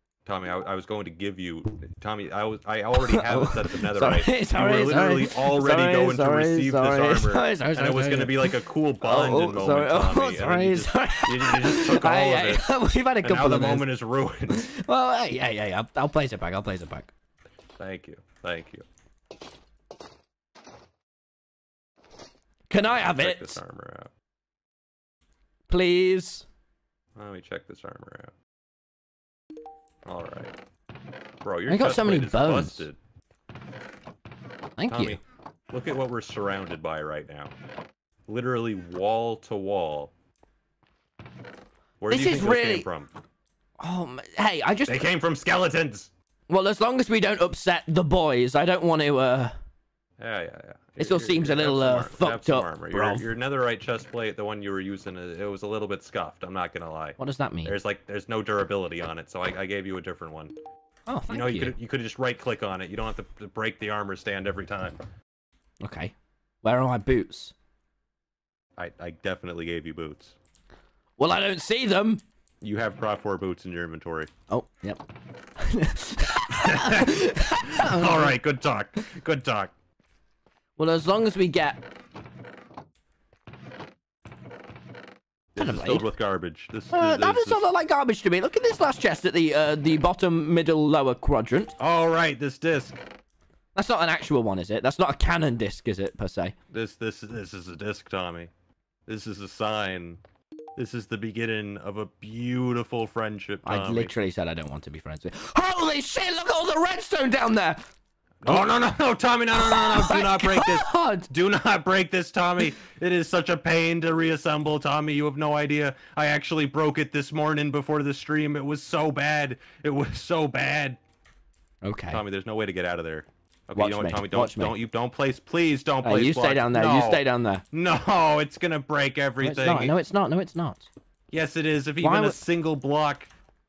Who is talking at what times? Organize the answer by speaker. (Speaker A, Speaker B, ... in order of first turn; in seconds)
Speaker A: 0.3-14.7, 17.8-18.8, 23.0-24.1, 27.1-28.3, 30.1-30.5, 31.4-33.0, 34.9-35.2, 35.7-37.5, 38.3-40.1, 42.0-43.1, 44.9-46.1, 50.2-60.5, 61.3-65.0, 68.8-70.4, 72.6-74.3, 76.6-77.1, 77.8-79.7, 85.5-87.7, 91.8-93.0, 96.7-98.5, 99.1-100.2, 100.8-104.1, 108.4-121.0, 122.1-129.9, 131.3-133.3
Speaker B: 3.0-13.9, 14.5-17.1, 22.7-23.6, 25.7-26.4, 31.7-32.9, 34.8-35.2, 42.1-42.9, 43.8-45.1, 46.5-49.5, 51.0-53.2, 57.2-57.7, 61.1-61.7, 65.8-67.5, 71.2-72.2, 74.5-75.0, 75.6-78.4, 80.8-81.8, 85.6-86.1, 86.9-91.7, 93.7-96.5, 103.6-107.9, 109.5-111.3, 121.8-122.2, 123.7-124.8, 126.0-127.6, 129.4-130.9, 132.0-132.4